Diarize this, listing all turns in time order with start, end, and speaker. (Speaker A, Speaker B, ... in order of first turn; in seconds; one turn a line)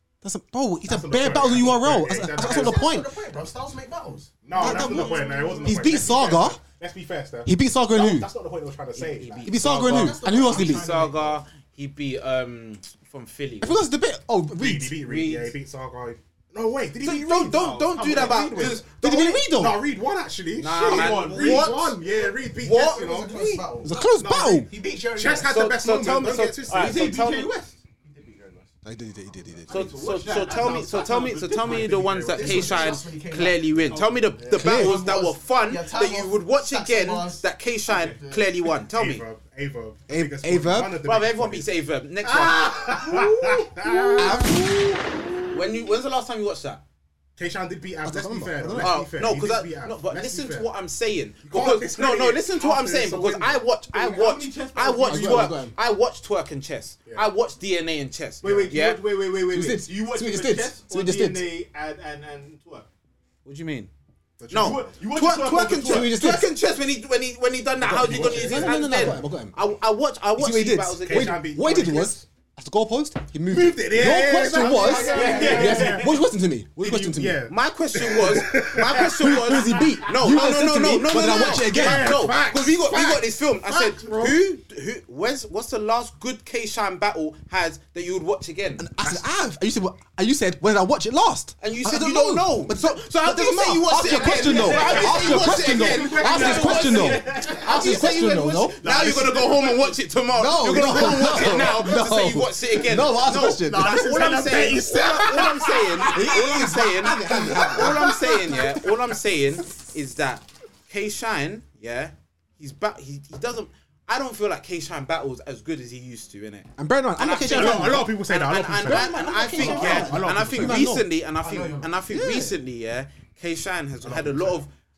Speaker A: 0.2-3.1
Speaker B: 0.9-6.1
Speaker C: 1.0-2.9
Speaker C: 4.4-10.2
Speaker A: 4.5-6.6
Speaker A: 7.5-8.3
Speaker D: 8.9-13.8
Speaker A: 9.4-10.8
Speaker B: 9.8-11.3
Speaker C: 10.8-11.2
Speaker A: 13.6-15.0
Speaker C: 14.6-23.6
Speaker D: 15.0-15.5
Speaker D: 17.0-19.4
Speaker E: 17.6-18.7
Speaker A: 18.9-19.8
Speaker D: 20.6-22.0
Speaker E: 20.7-21.8
Speaker B: 22.0-24.1
Speaker D: 22.6-23.0
Speaker A: 23.8-24.7
Speaker E: 24.1-24.7
Speaker B: 24.6-25.5
Speaker C: 25.1-27.2
Speaker D: 25.4-27.5
Speaker E: 26.7-27.8
Speaker B: 28.0-28.7
Speaker A: 28.8-29.9
Speaker E: 29.6-31.9
Speaker D: 29.7-39.2
Speaker C: 30.6-33.0
Speaker B: 32.3-34.0
Speaker E: 33.9-34.2
Speaker A: 34.5-35.0
Speaker B: 34.5-38.5
Speaker C: 38.9-41.7
Speaker A: 40.1-41.0
Speaker D: 41.0-42.7
Speaker C: 42.2-44.6
Speaker B: 43.1-44.2
Speaker A: 44.2-45.2
Speaker D: 45.5-46.8
Speaker C: 47.4-50.7
Speaker A: 48.0-49.0
Speaker D: 48.8-59.0
Speaker C: 51.4-53.6
Speaker E: 53.9-55.6
Speaker A: 55.1-55.7
Speaker E: 58.4-62.9
Speaker A: 59.5-61.5
Speaker D: 63.4-63.9
Speaker C: 64.4-66.0
Speaker D: 64.5-71.4
Speaker E: 64.5-66.2
Speaker A: 65.7-66.5
Speaker C: 67.8-69.2
Speaker A: 67.9-69.6
Speaker A: 70.4-77.4
Speaker C: 71.1-72.2
Speaker C: 73.5-76.2
Speaker B: 74.6-75.7
Speaker D: 74.9-75.7
Speaker E: 74.9-76.1
Speaker C: 76.8-79.9
Speaker D: 77.5-88.9
Speaker A: 78.8-82.3
Speaker C: 81.1-84.4
Speaker A: 88.8-99.5
Speaker D: 91.6-124.7
Speaker C: 94.2-98.0
Speaker E: 94.3-97.7
Speaker C: 98.8-99.7
Speaker A: 100.3-104.3
Speaker C: 100.8-101.8
Speaker C: 103.2-106.7
Speaker A: 106.0-108.9
Speaker C: 107.7-108.1
Speaker A: 116.8-118.1
Speaker C: 117.5-121.0
Speaker A: 118.8-121.1
Speaker B: 121.4-122.0
Speaker A: 122.1-122.6
Speaker C: 124.0-124.6